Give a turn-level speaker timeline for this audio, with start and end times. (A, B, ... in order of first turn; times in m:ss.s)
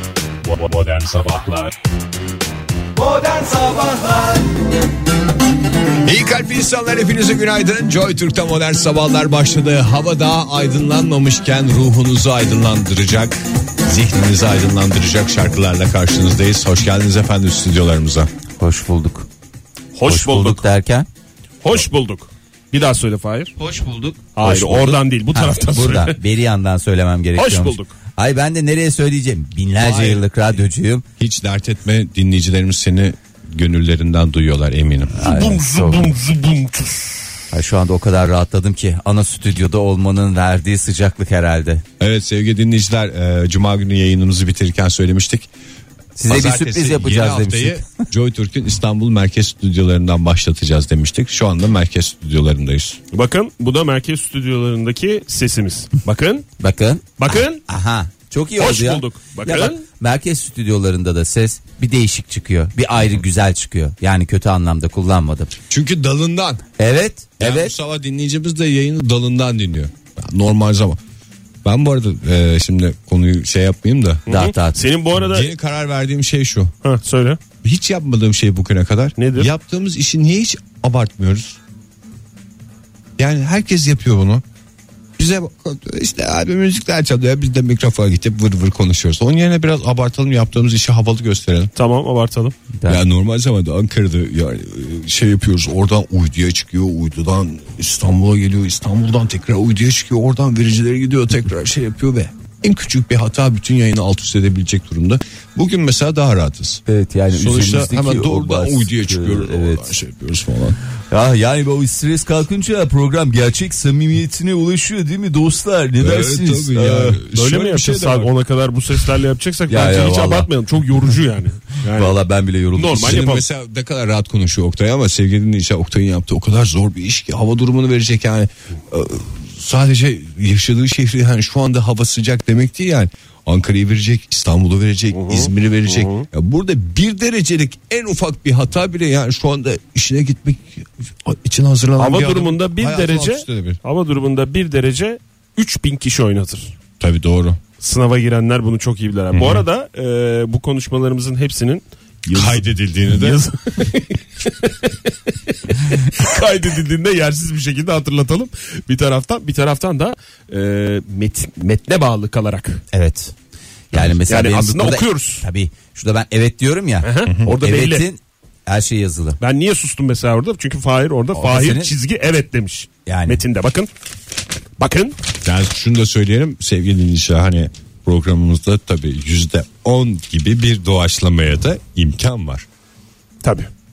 0:00.4-0:01.7 A
0:03.1-0:04.4 B
0:06.0-0:18.3 A
0:18.6-0:19.3 B
0:19.9-0:20.6 C
0:20.0-0:21.1 B
0:21.6-0:23.5 C
0:23.6-0:31.0 B
0:24.4-0:26.2 C
0:27.4-0:27.9 C
0:29.8-0:30.2 A
0:31.2-0:35.2 A
0:35.2-0:37.3 C
0:35.2-0:36.1 B
0:37.5-0:41.8 B
0:42.0-0:45.5 A
0:46.2-0:47.8 B
0:46.3-0:53.0 A
0:53.1-0:56.5 C
0:56.6-1:05.5 B
0:57.2-0:57.6 C
0:58.6-0:59.8 C
1:05.7-1:06.6 A
1:06.8-1:07.7 B
1:07.4-1:11.0 A
1:11.6-1:14.2 A
1:14.2-1:15.5 C
1:14.3-1:14.8 B
1:15.1-1:16.7 A
1:16.8-1:17.4 C
1:17.6-1:21.6 A
1:19.2-1:19.5 C
1:23.2-1:24.4 A
1:25.2-1:31.7 A
1:31.8-1:32.5 C
1:32.7-1:33.0 B
1:32.9-1:50.8 A
1:46.8-1:49.9 B
1:51.1-1:57.2 B
1:56.0-1:58.3 A
1:57.3-2:02.2 C
1:59.7-2:00.5 B
2:01.9-2:03.2 B
2:02.7-2:03.4 C
2:03.0-2:23.8 A
2:15.1-2:16.3 C
2:22.0-2:26.7 C
2:27.0-2:27.6 A
2:27.8-2:42.8 C
2:29.3-2:29.6 A
2:32.3-2:33.4 A
2:42.9-2:43.3 B
2:43.9-2:44.2 A
2:43.9-2:49.4 B
2:44.3-2:45.4 C
2:47.0-2:48.0 C
2:47.2-2:47.5 A
2:49.4-2:53.9 C
2:51.3-2:51.9 B
2:53.0-2:53.4 B
2:54.8-2:55.2 C
2:55.4-3:02.6 A
3:03.4-3:03.7 C